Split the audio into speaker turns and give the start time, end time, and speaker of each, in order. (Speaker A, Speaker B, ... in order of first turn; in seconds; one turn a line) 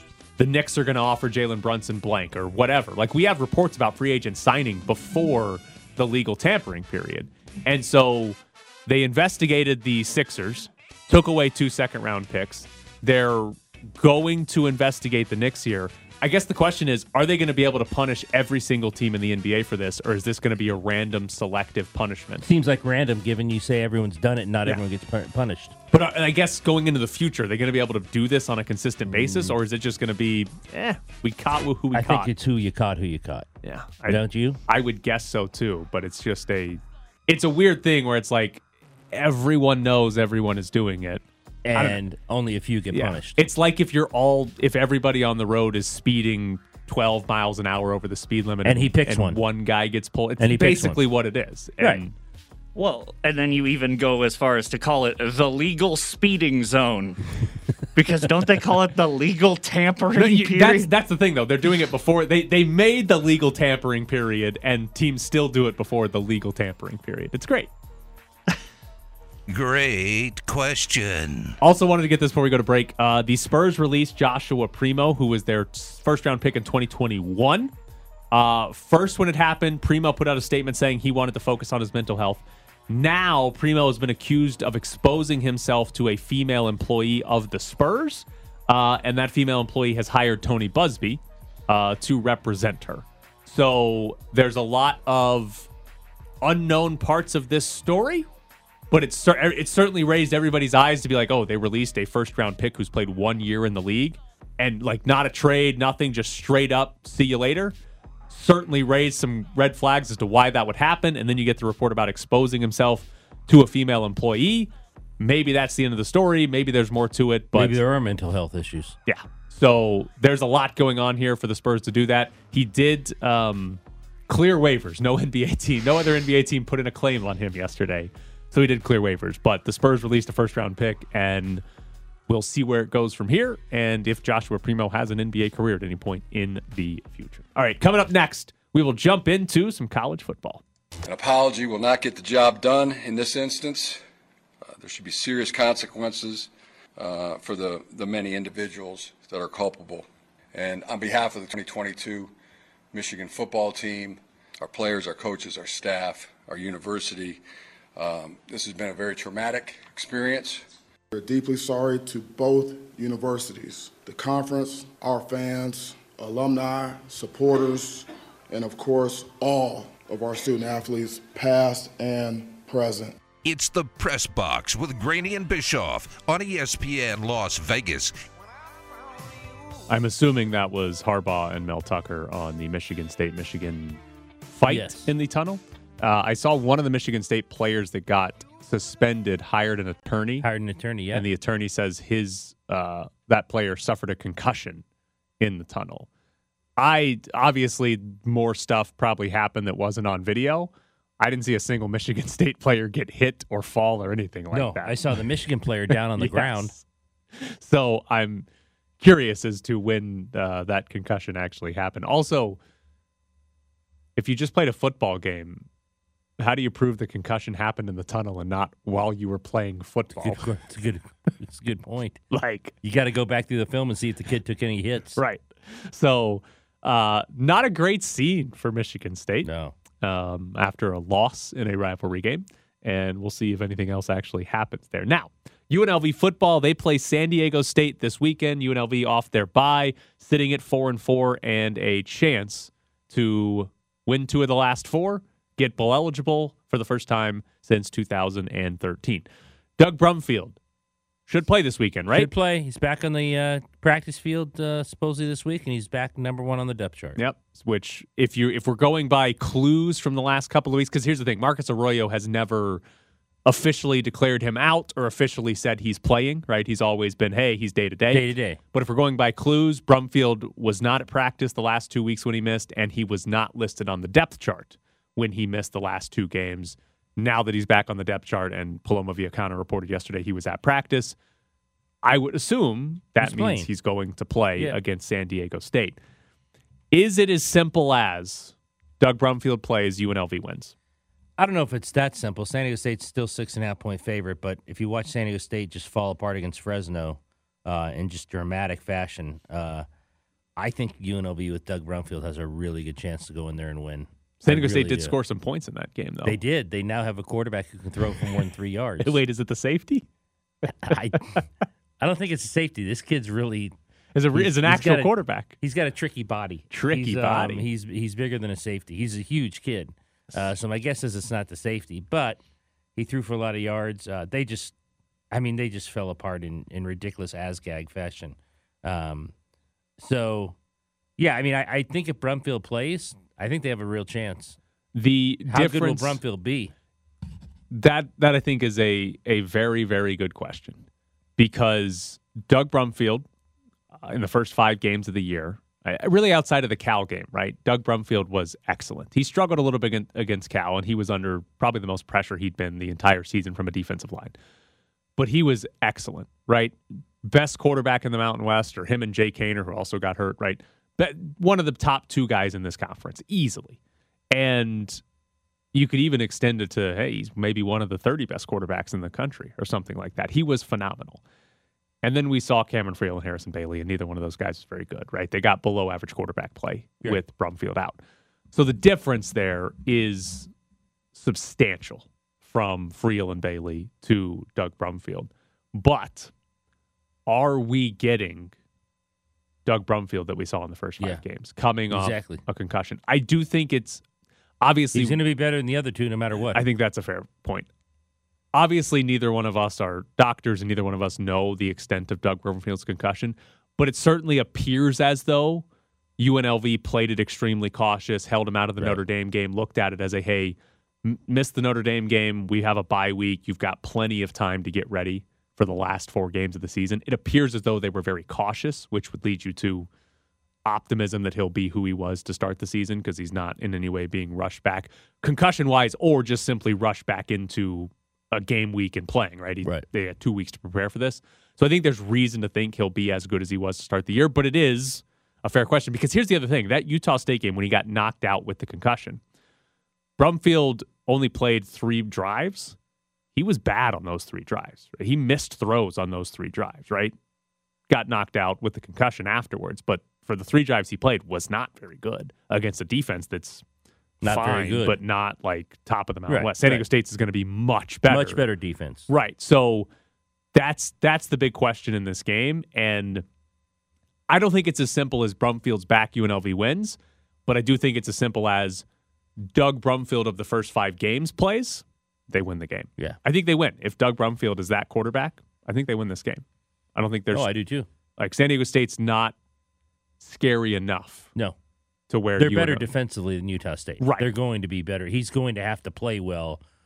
Speaker A: 0.4-22.4
Speaker B: 22.4-25.7
Speaker A: 25.9-32.3
Speaker B: 29.1-29.6
Speaker B: 31.9-33.5
Speaker A: 33.6-42.0
Speaker B: 34.0-34.6
Speaker B: 41.6-43.4
Speaker A: 42.9-52.1
Speaker B: 48.6-49.4
Speaker B: 50.4-51.0
Speaker C: 52.7-57.2
Speaker C: 57.9-60.9
Speaker A: 60.1-67.7
Speaker D: 69.5-71.5
Speaker A: 71.6-77.7
Speaker A: 78.3-95.7
Speaker A: 96.4-98.3
Speaker A: 98.9-107.7
Speaker A: 108.3-117.8
Speaker B: 117.5-119.0
Speaker A: 119.1-131.6
Speaker A: 132.3-140.6
Speaker E: 141.0-144.0
Speaker E: 144.6-152.3
Speaker E: 152.9-157.4
Speaker E: 157.9-160.6
Speaker F: 161.1-173.2
Speaker D: 173.4-178.1
Speaker A: 179.9-190.5
Speaker B: 184.7-185.1
Speaker B: 190.4-191.3
Speaker A: 191.1-194.8
Speaker A: 195.4-196.1
Speaker A: 196.8-205.1
Speaker B: 204.5-206.7
Speaker A: 205.9-206.8
Speaker A: 207.4-208.4
Speaker A: 209.0-212.6
Speaker A: 214.2-215.7
Speaker A: 216.4-220.5
Speaker B: 220.1-222.2
Speaker A: 222.3-222.7
Speaker B: 222.8-225.2
Speaker A: 225.2-229.5
Speaker B: 229.4-229.8
Speaker A: 230.0-249.2
Speaker A: 249.8-250.6
Speaker A: 251.3-252.3
Speaker B: 252.1-257.2
Speaker A: 257.1-262.8
Speaker A: 263.4-281.1
Speaker B: 268.1-268.6
Speaker A: 282.0-286.0
Speaker B: 283.2-283.7
Speaker A: 286.9-290.7
Speaker B: 291.4-299.9
Speaker B: 300.6-305.2
Speaker A: 304.4-306.4
Speaker B: 306.2-309.2
Speaker A: 309.0-310.0
Speaker B: 310.7-311.4
Speaker B: 312.0-313.7
Speaker A: 314.1-315.6
Speaker B: 314.3-322.4
Speaker A: 316.7-317.7
Speaker B: 322.9-324.7
Speaker B: 325.3-329.3
Speaker B: 330.0-330.6
Speaker B: 331.2-334.6
Speaker A: 334.9-336.2
Speaker B: 335.5-336.7
Speaker A: 337.7-340.8
Speaker A: 341.4-343.2
Speaker A: 344.0-354.3
Speaker A: 355.2-363.8
Speaker A: 364.3-365.0
Speaker A: 365.7-371.2
Speaker A: 372.0-378.0
Speaker A: 378.5-380.5
Speaker A: 381.1-386.3
Speaker A: 387.3-388.5
Speaker A: 389.6-394.0
Speaker B: 391.9-392.4
Speaker A: 394.6-395.2
Speaker B: 394.9-396.6
Speaker A: 396.5-397.7
Speaker A: 398.5-405.6
Speaker A: 406.2-419.9
Speaker A: 420.6-439.2
Speaker A: 440.2-442.8
Speaker A: 443.3-447.1
Speaker A: 447.9-453.6
Speaker B: 454.2-455.0
Speaker A: 454.2-458.4
Speaker B: 456.3-456.8
Speaker B: 458.1-459.1
Speaker A: 459.1-459.9
Speaker A: 460.5-463.2
Speaker A: 464.3-468.8
Speaker A: 469.5-476.4
Speaker A: 476.9-477.5
Speaker B: 477.3-477.9
Speaker A: 478.2-479.3
Speaker A: 480.2-481.3
Speaker A: 482.1-482.9
Speaker B: 482.4-486.6
Speaker A: 484.0-484.3